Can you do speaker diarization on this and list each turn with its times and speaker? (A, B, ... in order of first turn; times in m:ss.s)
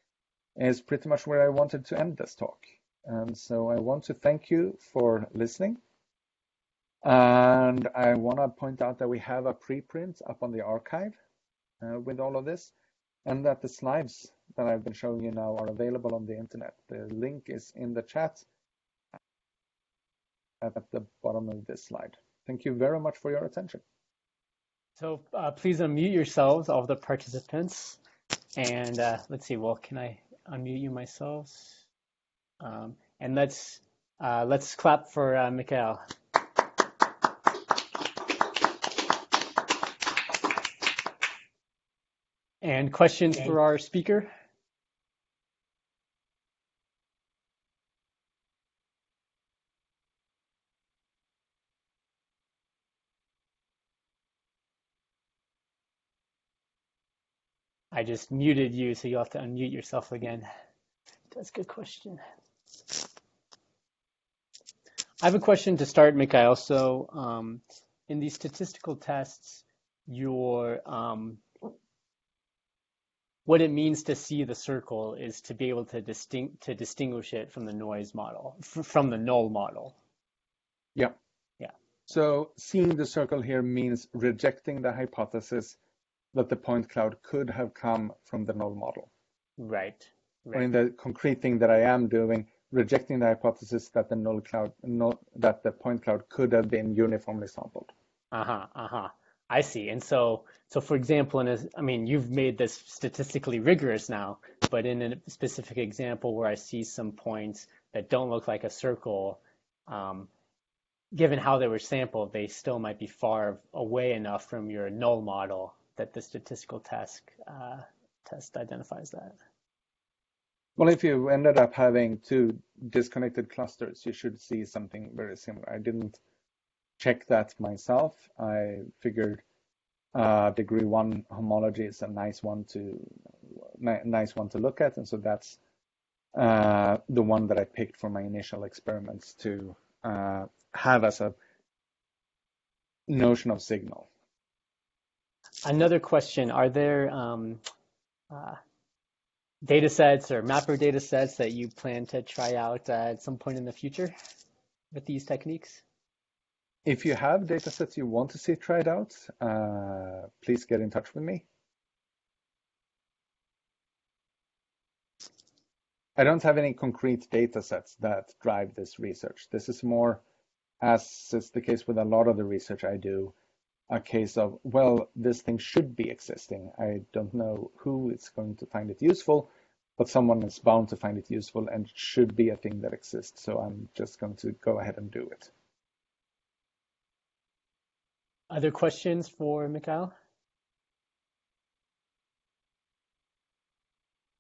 0:00.6-0:05.8 A
0:07.0-0:11.2 A
0:11.8-0:12.7 A
0:13.2-0:18.5 A
0:20.6-0:23.8 A
0:25.0-0:28.0 B
0:28.6-0:31.8 B
0:32.6-0:36.0 B
0:42.6-0:44.3 B
0:57.9-1:00.5 B
1:01.3-1:02.2 B
1:05.2-1:11.7 B
1:13.5-1:20.0 B
1:22.1-1:25.8 A
1:26.3-1:29.1 A
1:29.6-1:30.7 B
1:30.5-1:37.9 A
1:38.3-1:50.3 B
1:51.1-1:59.4 B
2:00.8-2:06.2 A
2:07.0-2:09.4 A
2:10.1-2:15.6 A
2:16.3-2:21.4 A
2:23.1-2:24.1 A
2:25.6-2:27.6 B
2:28.3-2:28.6 B
2:29.6-2:34.1 B
2:34.9-2:35.8 B
2:36.8-2:41.5 A
2:46.2-2:50.2 A
2:50.8-2:53.3 A
2:53.9-3:05.5 A
3:08.5-3:10.1 B